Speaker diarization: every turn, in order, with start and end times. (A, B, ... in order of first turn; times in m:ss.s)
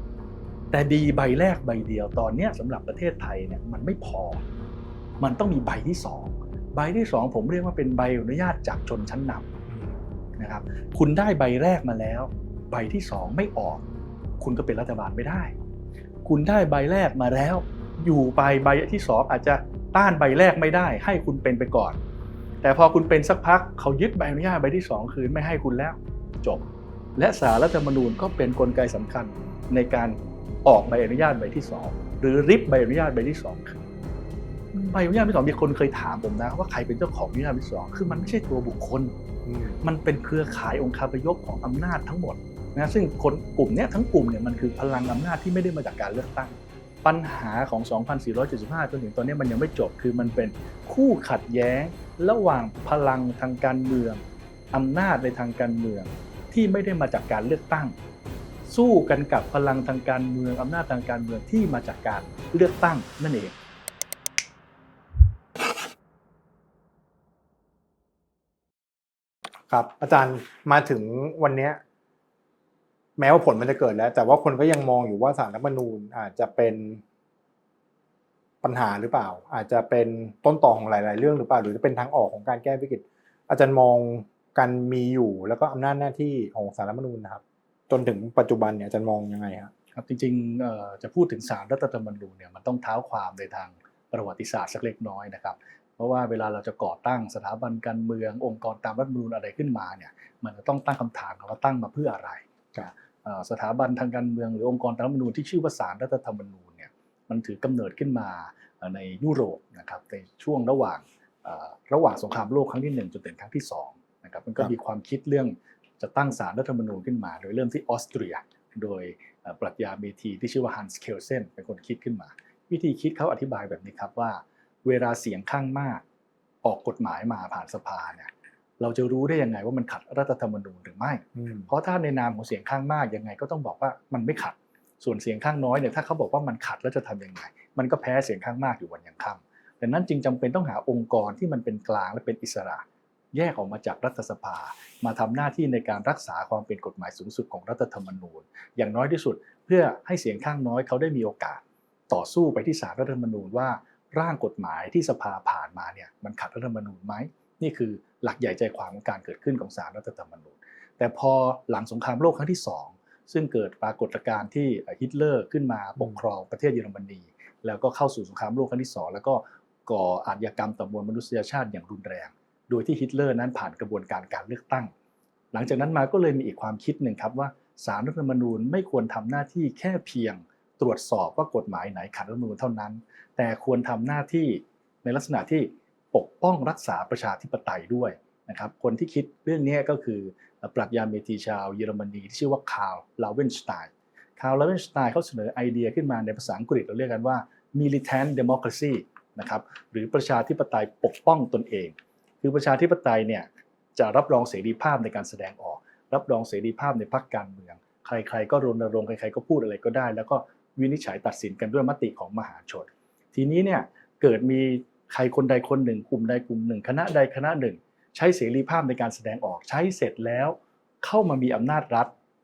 0:00.7-0:04.4 A
0:05.2-0:09.5 A
0:09.7-0:10.0 B
0:10.4-0:13.8 A
0:14.4-0:15.5 A
0:16.2-0:22.0 A
0:22.6-0:26.6 A
0:27.2-0:33.8 A
0:34.7-0:39.1 A
0:39.4-0:39.8 B
0:39.8-0:54.2 A
0:54.7-0:57.9 A
0:58.7-1:03.5 A
1:09.7-1:11.8 B
1:13.2-1:17.0 B
1:18.6-1:29.7 B
1:29.9-1:42.4 A
1:43.2-2:06.0 A
2:06.6-2:54.9 A
2:11.4-2:11.7 B
2:55.5-3:42.1 A